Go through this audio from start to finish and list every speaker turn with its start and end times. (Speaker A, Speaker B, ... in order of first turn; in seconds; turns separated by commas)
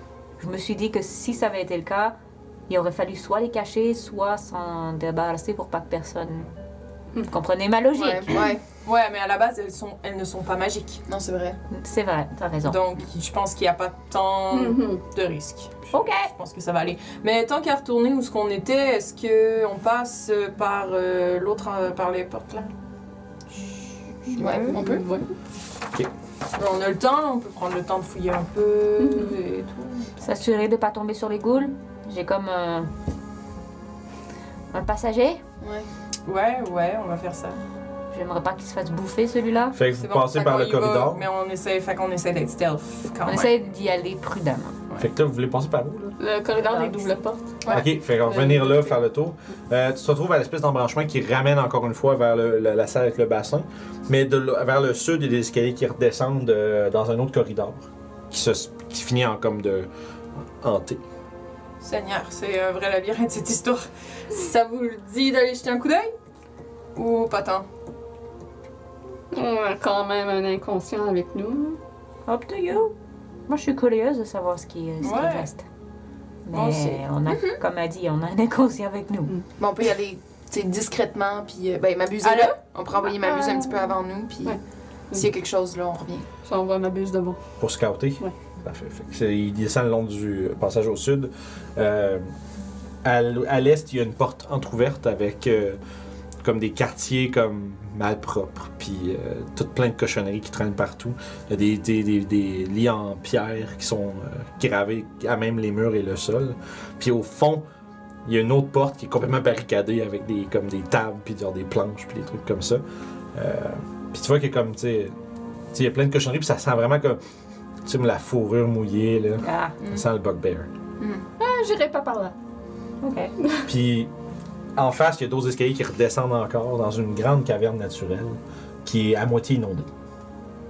Speaker A: 0.4-2.2, Speaker A: 2.7-6.5, Speaker A: 7.3-8.5, Speaker B: 8.0-8.6, Speaker C: 8.7-11.0, Speaker B: 11.1-11.6, Speaker A: 11.7-12.9, Speaker C: 12.6-22.7, Speaker D: 14.5-15.0, Speaker A: 15.9-16.3, Speaker A: 24.3-24.7, Speaker B: 24.4-25.0, Speaker D: 24.7-25.3, Speaker C: 26.6-30.2, Speaker D: 29.0-29.4, Speaker A: 30.2-32.9, Speaker A: 34.7-35.4, Speaker B: 35.6-35.9, Speaker C: 36.3-37.6, Speaker A: 38.1-39.8, Speaker E: 39.7-41.2, Speaker C: 40.0-43.5, Speaker A: 43.2-44.8, Speaker E: 45.0-46.2, Speaker D: 46.2-48.9, Speaker C: 46.7-47.1, Speaker E: 47.7-59.9, Speaker E: 60.6-61.0, Speaker C: 61.8-66.1, Speaker C: 67.0-67.7, Speaker D: 69.3-71.8, Speaker A: 72.3-73.0, Speaker A: 73.5-75.6, Speaker C: 75.0-75.5, Speaker A: 76.5-79.3, Speaker C: 76.5-77.0, Speaker B: 79.6-84.6, Speaker C: 82.2-82.6, Speaker C: 83.2-83.7, Speaker B: 85.1-86.3, Speaker D: 86.4-87.4, Speaker E: 87.6-92.3, Speaker E: 93.0-95.8, Speaker E: 96.4-107.7, Speaker E: 108.2-115.2, Speaker E: 115.7-117.2, Speaker E: 117.8-120.7, Speaker A: 119.4-119.8, Speaker B: 121.0-121.2, Speaker D: 121.4-122.3, Speaker A: 123.0-123.3, Speaker E: 123.7-124.1, Speaker E: 124.8-129.9